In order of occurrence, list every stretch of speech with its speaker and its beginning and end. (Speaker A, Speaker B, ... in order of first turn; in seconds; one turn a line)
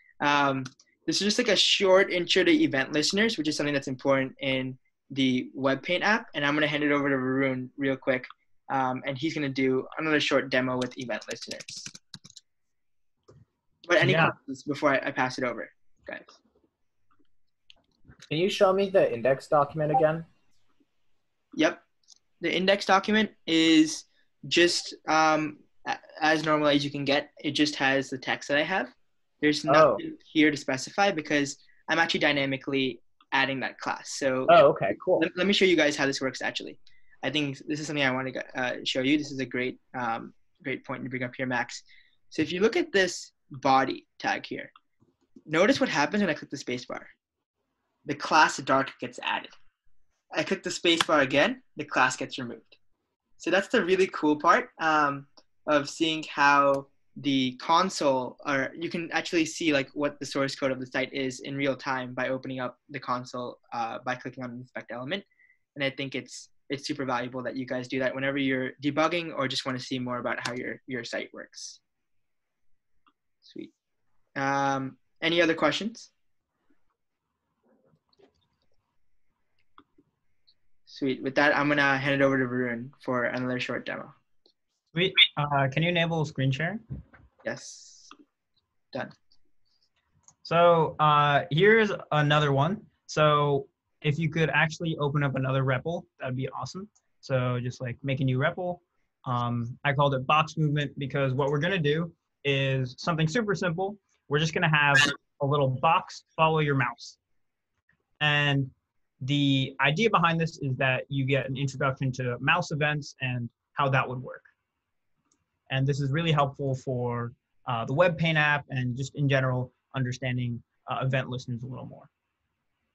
Speaker A: 0.2-11.9
Speaker A: 13.8-16.4
Speaker B: 14.0-14.3
Speaker C: 18.3-20.2
Speaker A: 21.6-21.8
Speaker A: 22.4-34.6
Speaker C: 29.7-30.0
Speaker C: 34.5-35.3
Speaker A: 35.2-44.7
Speaker A: 45.5-47.1
Speaker A: 48.0-49.5
Speaker A: 50.3-52.7
Speaker A: 53.4-71.8
Speaker A: 73.4-73.7
Speaker A: 74.3-76.1
Speaker A: 80.9-84.1
Speaker B: 84.9-86.8
Speaker A: 87.4-88.1
Speaker B: 90.4-107.2
Speaker B: 108.2-114.5
Speaker B: 115.7-122.1